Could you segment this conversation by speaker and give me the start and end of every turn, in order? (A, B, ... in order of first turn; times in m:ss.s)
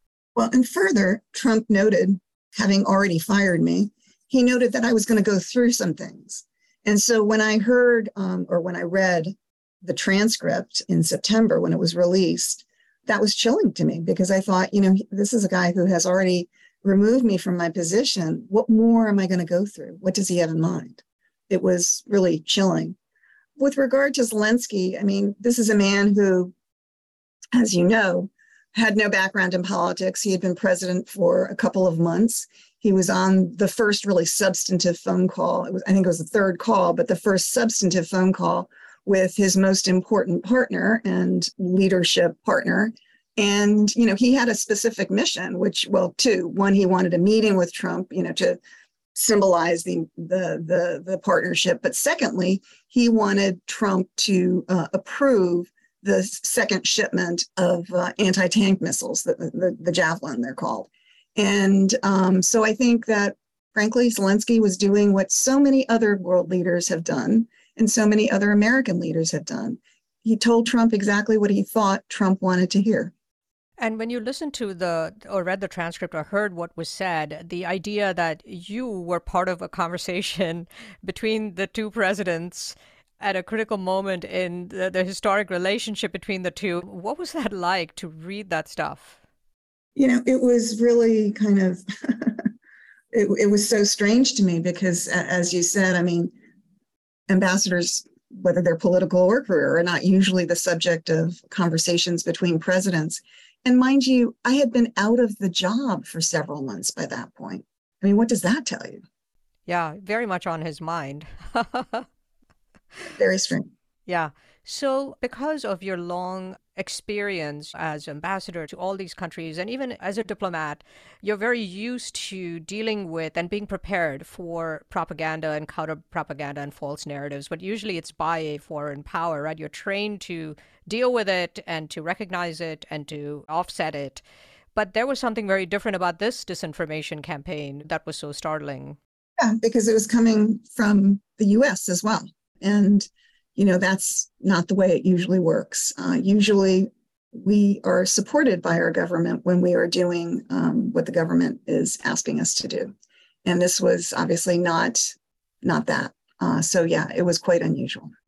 0:00.3-0:23.0 A
0:23.6-0:26.5 A
0:27.5-0:48.6 A
0:49.1-1:13.1 A
1:13.8-1:29.2 B
1:30.0-1:32.5 A
1:33.1-1:36.3 A
1:37.3-1:49.0 A
1:49.7-1:52.1 B
1:53.1-1:53.7 A
1:54.1-2:14.2 B
2:14.7-2:19.0 B
2:19.4-2:32.9 A
2:33.4-2:38.1 A